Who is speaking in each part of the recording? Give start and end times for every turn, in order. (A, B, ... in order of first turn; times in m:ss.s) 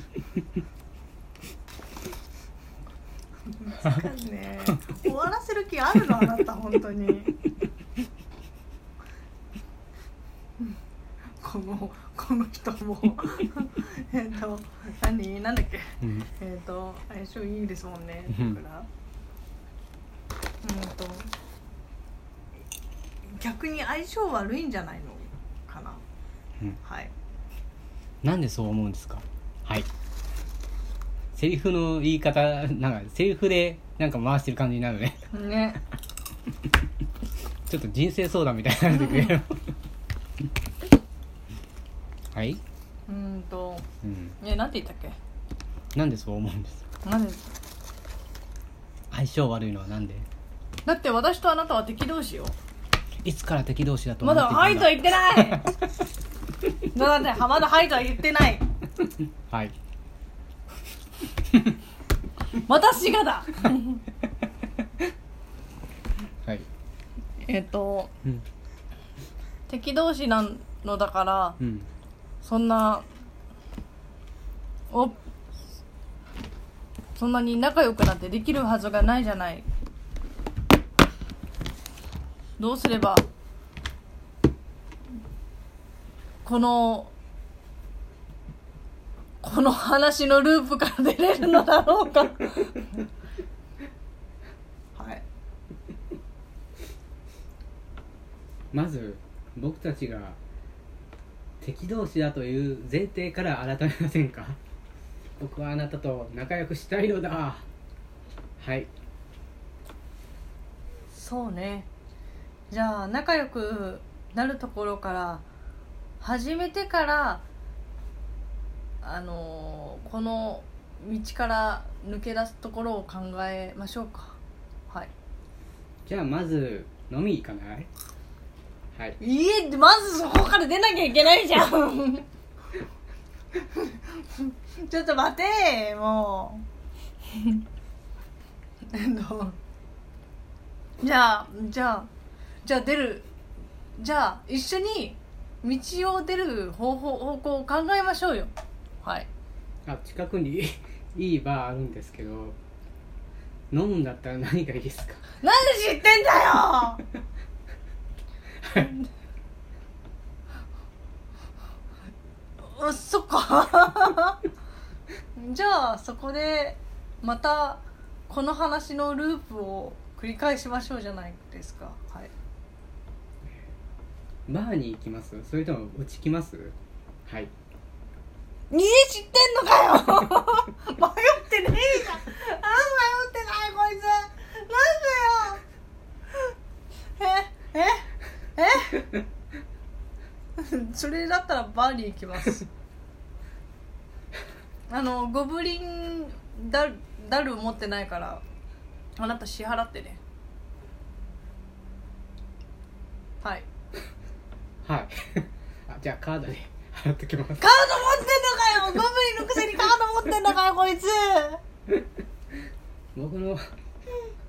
0:03.6-0:07.3 A
0:11.4-0:18.9 A
0:16.0-0:16.3 B
0:18.3-0:18.6 B
0:20.6-0:21.3 A
0:23.2-0:26.0 A
0:26.8-0:27.1 A
0:28.2-0:29.9 B
0:31.3-0:35.2 B
0:35.3-0:35.8 A
0:37.7-0:39.6 B
0:42.3-0:42.6 B
0:43.1-0:43.8 A
0:44.0-0:44.4 B
0:44.4-0:45.2 A
0:45.9-0:46.8 B
0:47.0-0:47.5 A
0:49.1-0:50.3 B
0:50.8-0:52.5 A
0:53.2-0:55.7 B
0:54.2-0:55.7 A
0:56.9-0:58.6 A
0:59.5-0:59.8 B
1:02.6-1:04.0 A
1:07.4-1:08.1 A
1:09.7-1:11.6 A
1:11.6-1:11.9 B
1:12.4-1:13.1 A
1:14.9-1:15.2 A
1:17.2-1:19.6 A
1:22.6-1:23.2 A
1:26.4-1:27.1 A
1:29.4-1:32.9 A
1:35.0-1:35.2 A
1:38.7-1:40.4 B
1:41.6-1:44.6 B
1:45.4-1:47.6 B
1:48.6-1:48.9 B
1:51.1-1:51.9 A
1:52.7-1:55.4 A
1:56.2-1:57.4 A
1:59.0-2:04.4 A
2:06.0-2:07.9 B
2:09.2-2:12.2 A
2:13.6-2:16.6 A
2:17.3-2:17.6 A
2:18.9-2:19.6 A
2:21.0-2:22.1 A
2:22.6-2:23.3 A
2:24.0-2:29.3 A
2:29.9-2:32.6 B
2:33.7-2:35.2 B
2:35.4-2:37.0 A
2:38.7-2:39.1 A
2:42.6-2:44.4 A
2:45.4-2:52.3 A
2:54.5-2:56.8 B
2:58.7-3:05.6 A
3:07.2-3:09.1 A
3:10.6-3:12.7 A
3:14.9-3:18.4 A
3:19.2-3:20.2 A
3:23.4-3:23.6 A
3:24.8-3:28.0 B
3:27.6-3:31.6 A
3:33.1-3:33.6 B